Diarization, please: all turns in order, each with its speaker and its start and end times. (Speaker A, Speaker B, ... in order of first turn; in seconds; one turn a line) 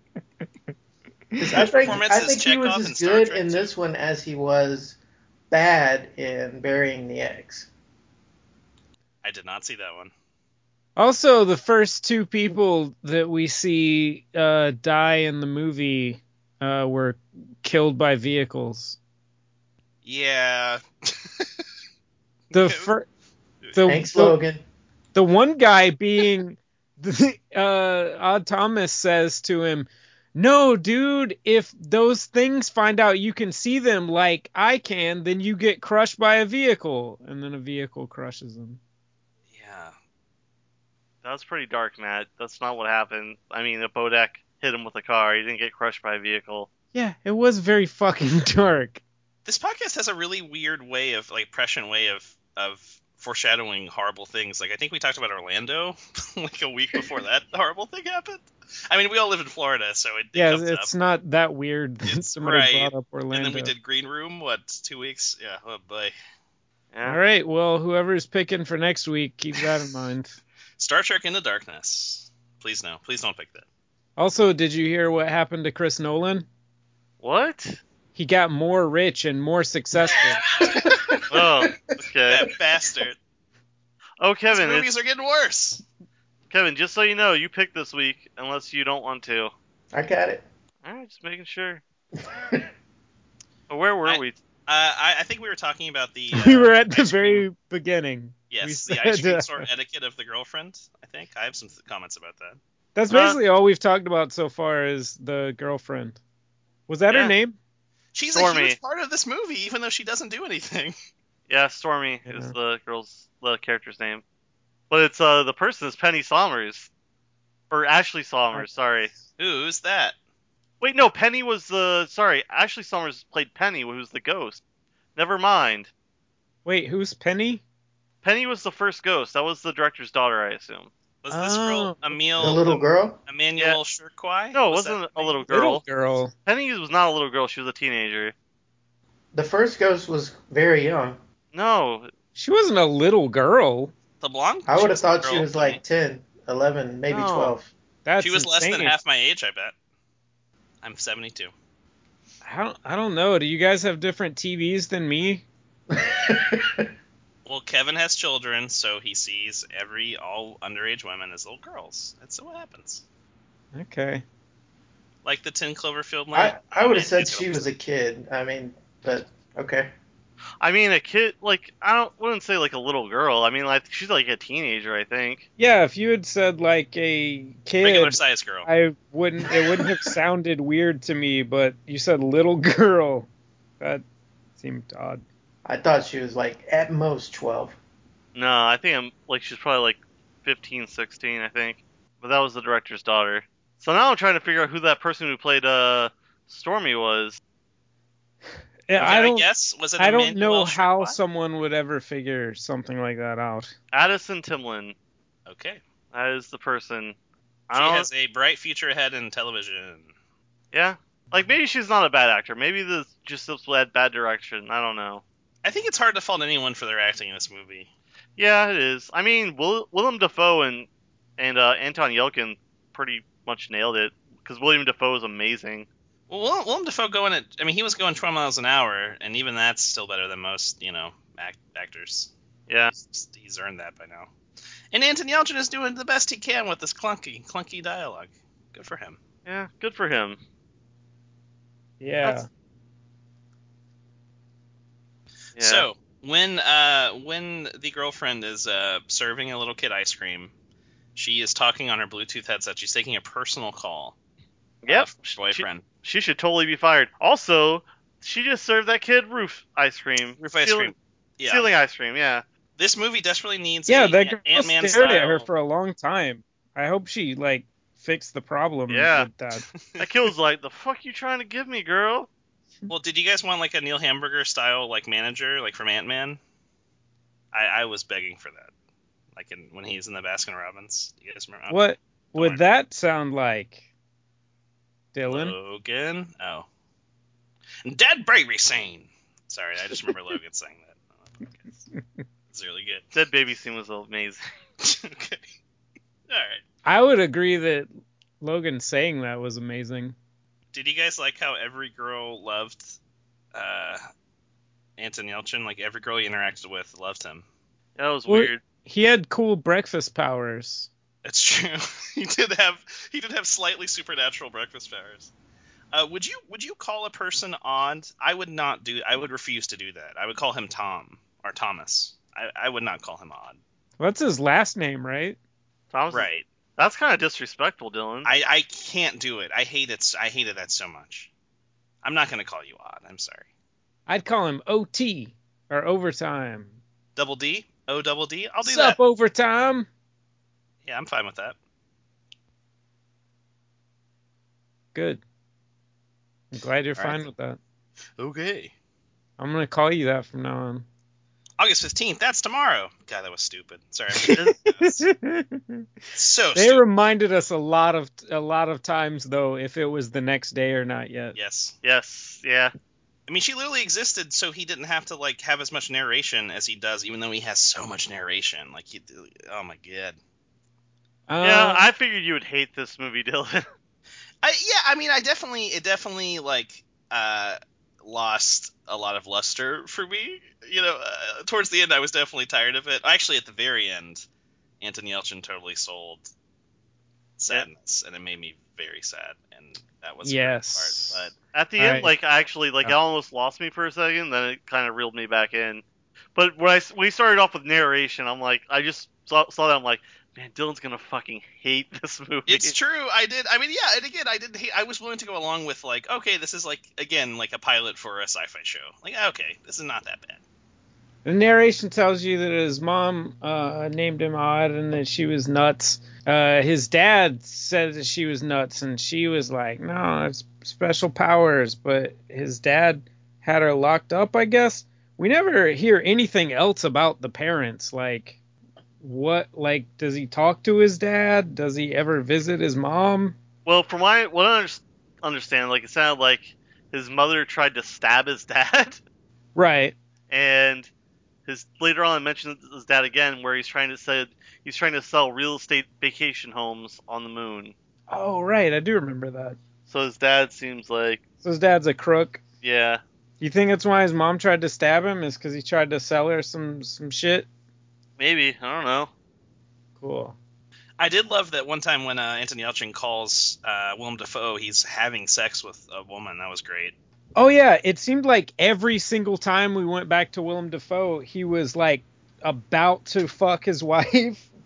Speaker A: 1.4-5.0
Speaker B: 1.6-3.7
Speaker A: 5.5-7.7
Speaker B: 9.2-10.1
Speaker C: 10.9-19.0
Speaker B: 20.0-21.6
Speaker B: 22.5-22.9
Speaker C: 22.5-23.1
Speaker C: 23.7-24.4
Speaker A: 23.9-24.6
Speaker C: 25.1-38.8
Speaker B: 39.5-39.9
Speaker D: 41.2-46.7
Speaker C: 46.9-49.0
Speaker B: 49.4-60.9
Speaker C: 60.3-63.7
Speaker B: 62.0-66.1
Speaker D: 66.9-67.2
Speaker C: 67.0-70.4
Speaker B: 70.8-73.6
Speaker C: 74.2-76.5
Speaker D: 77.2-77.8
Speaker C: 78.1-80.4
Speaker B: 80.5-81.5
Speaker D: 81.3-82.5
Speaker B: 82.2-83.2
Speaker D: 84.2-84.9
Speaker B: 84.5-85.8
Speaker D: 86.5-89.5
Speaker A: 89.9-90.4
Speaker D: 90.8-91.8
Speaker A: 92.2-92.6
Speaker D: 93.7-94.4
Speaker B: 94.0-97.4
Speaker C: 96.3-99.7
Speaker B: 98.5-102.6
Speaker C: 102.9-106.2
Speaker D: 103.1-103.4
Speaker C: 106.9-107.5
Speaker D: 107.1-107.3
Speaker B: 108.1-111.0
Speaker D: 108.3-108.8
Speaker D: 111.5-114.2
Speaker C: 112.3-112.5
Speaker D: 114.9-116.9
Speaker D: 117.7-119.1
Speaker B: 119.4-120.2
Speaker D: 120.8-124.6
Speaker D: 125.2-125.9
Speaker C: 126.6-127.6
Speaker D: 128.2-130.9
Speaker B: 131.2-135.4
Speaker C: 131.3-132.5
Speaker A: 132.4-133.2
Speaker D: 134.5-135.8
Speaker C: 135.5-136.3
Speaker D: 136.4-138.3
Speaker A: 139.3-141.2
Speaker D: 141.5-142.1
Speaker C: 142.3-143.9
Speaker B: 144.2-145.8
Speaker A: 144.7-147.7
Speaker D: 147.1-147.5
Speaker C: 148.0-148.9
Speaker B: 148.2-149.7
Speaker B: 150.8-151.5
Speaker C: 152.4-155.4
Speaker A: 155.9-156.9
Speaker B: 157.4-163.0
Speaker C: 163.7-164.2
Speaker B: 165.2-167.7
Speaker A: 166.3-169.9
Speaker D: 170.6-175.4
Speaker C: 175.6-183.3
Speaker B: 177.8-178.7
Speaker C: 184.6-185.2
Speaker A: 185.6-187.8
Speaker D: 188.3-197.4
Speaker C: 198.9-199.4
Speaker B: 198.9-201.2
Speaker C: 200.0-203.7
Speaker D: 203.9-204.9
Speaker B: 205.4-205.8
Speaker D: 206.1-207.2
Speaker D: 207.7-208.1
Speaker B: 207.7-210.1
Speaker D: 210.7-215.2
Speaker B: 215.6-217.9
Speaker D: 218.4-225.9
Speaker B: 226.3-232.3
Speaker D: 232.7-232.9
Speaker B: 232.9-234.3
Speaker B: 234.9-239.2
Speaker D: 239.4-240.4
Speaker C: 242.0-242.5
Speaker B: 245.6-250.5
Speaker D: 245.6-245.8
Speaker B: 251.1-254.1
Speaker D: 254.8-260.9
Speaker B: 254.9-255.8
Speaker B: 260.4-261.7
Speaker D: 261.4-262.4
Speaker B: 262.8-265.4
Speaker C: 263.9-269.7
Speaker D: 268.9-269.3
Speaker B: 269.7-270.1
Speaker D: 270.0-272.3
Speaker B: 272.9-276.4
Speaker B: 277.5-278.7
Speaker B: 279.3-281.8
Speaker C: 281.7-283.8
Speaker B: 282.3-282.6
Speaker C: 285.1-285.5
Speaker B: 285.3-286.6
Speaker B: 287.8-291.7
Speaker B: 292.5-293.1
Speaker D: 293.1-294.4
Speaker B: 294.8-295.5
Speaker B: 296.3-296.6
Speaker C: 296.8-297.9
Speaker C: 298.4-300.1
Speaker B: 300.7-303.0
Speaker B: 303.5-304.0
Speaker B: 305.0-307.4
Speaker D: 308.0-308.6
Speaker C: 308.3-310.9
Speaker B: 311.2-315.3
Speaker B: 315.9-323.6
Speaker C: 324.0-325.4
Speaker D: 325.9-328.3
Speaker B: 326.1-326.5
Speaker B: 328.2-331.3
Speaker B: 332.0-333.4
Speaker C: 334.1-336.7
Speaker B: 337.1-339.0
Speaker C: 338.6-339.9
Speaker B: 340.8-341.6
Speaker C: 344.9-345.2
Speaker C: 346.5-347.6
Speaker B: 346.9-347.3
Speaker B: 348.2-348.7
Speaker C: 349.4-350.8
Speaker B: 351.6-355.0
Speaker C: 354.2-355.9
Speaker B: 356.1-356.8
Speaker C: 356.5-361.4
Speaker B: 361.3-361.8
Speaker D: 361.8-362.7
Speaker B: 363.3-370.2
Speaker C: 371.3-371.9
Speaker D: 371.4-373.6
Speaker B: 374.4-384.2
Speaker B: 384.8-386.3
Speaker B: 387.4-391.3
Speaker C: 390.2-392.1
Speaker D: 391.5-395.8
Speaker D: 396.3-402.8
Speaker B: 402.5-410.4
Speaker C: 411.2-428.4
Speaker C: 429.0-433.4
Speaker D: 433.6-439.0
Speaker C: 439.5-439.9
Speaker D: 440.3-440.9
Speaker D: 441.5-447.7
Speaker C: 448.1-449.6
Speaker D: 449.9-451.2
Speaker C: 451.4-452.4
Speaker D: 452.6-453.0
Speaker C: 453.4-457.5
Speaker D: 458.2-459.1
Speaker C: 460.0-460.4
Speaker B: 461.0-466.9
Speaker C: 467.4-474.5